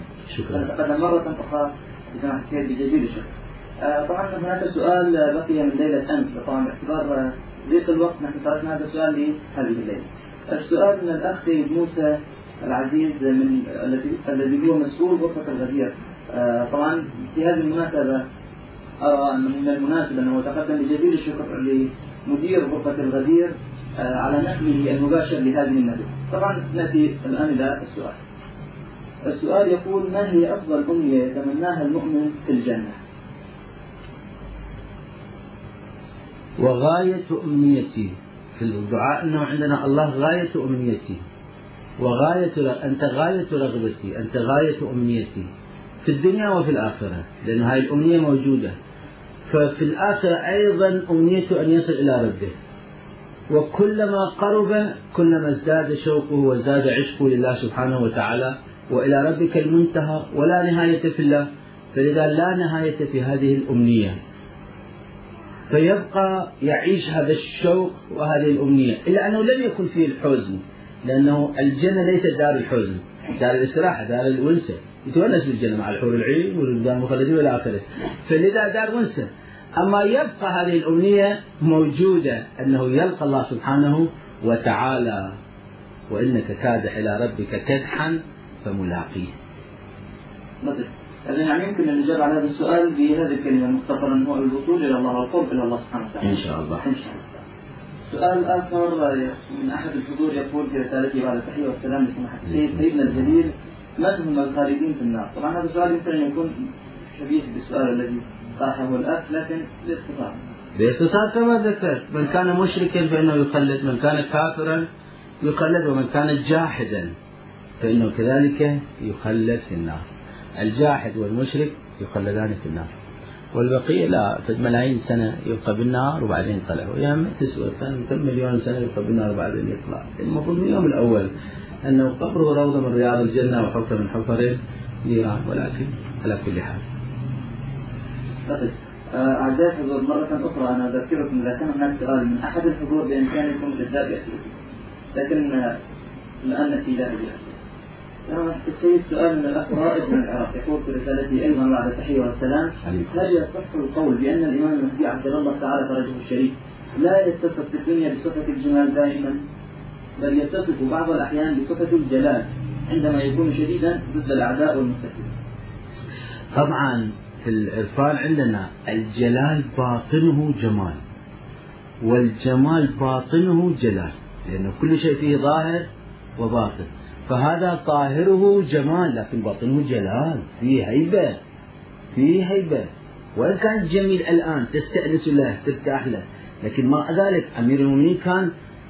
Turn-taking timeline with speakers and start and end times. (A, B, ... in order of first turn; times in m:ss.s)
0:00.3-0:00.7 A
0:00.5-0:18.2 B
0:19.0-0:28.2 B
0:29.2-0:33.0 B
0:36.6-0:41.2 A
0:42.0-0:45.5 A
0:46.0-0:48.8 A
0:49.4-0:52.5 A
0:53.5-1:04.2 A
1:05.7-1:25.4 A
1:26.1-1:29.4 A
1:30.6-1:37.4 B
1:36.2-1:36.9 A
1:38.1-1:50.4 B
1:50.8-1:54.9 A
1:55.4-1:57.1 A
1:57.8-2:00.0 A
2:00.6-2:02.9 A
2:03.5-2:11.3 A
2:11.8-2:16.8 A
2:18.5-2:24.5 B
2:25.1-2:25.8 B
2:26.4-2:27.6 B
2:28.3-2:39.4 B
2:32.8-2:33.4 A
2:40.2-2:45.3 B
2:46.5-2:51.0 A
2:52.0-2:55.9 A
2:56.4-3:01.4 A
3:02.1-3:08.5 A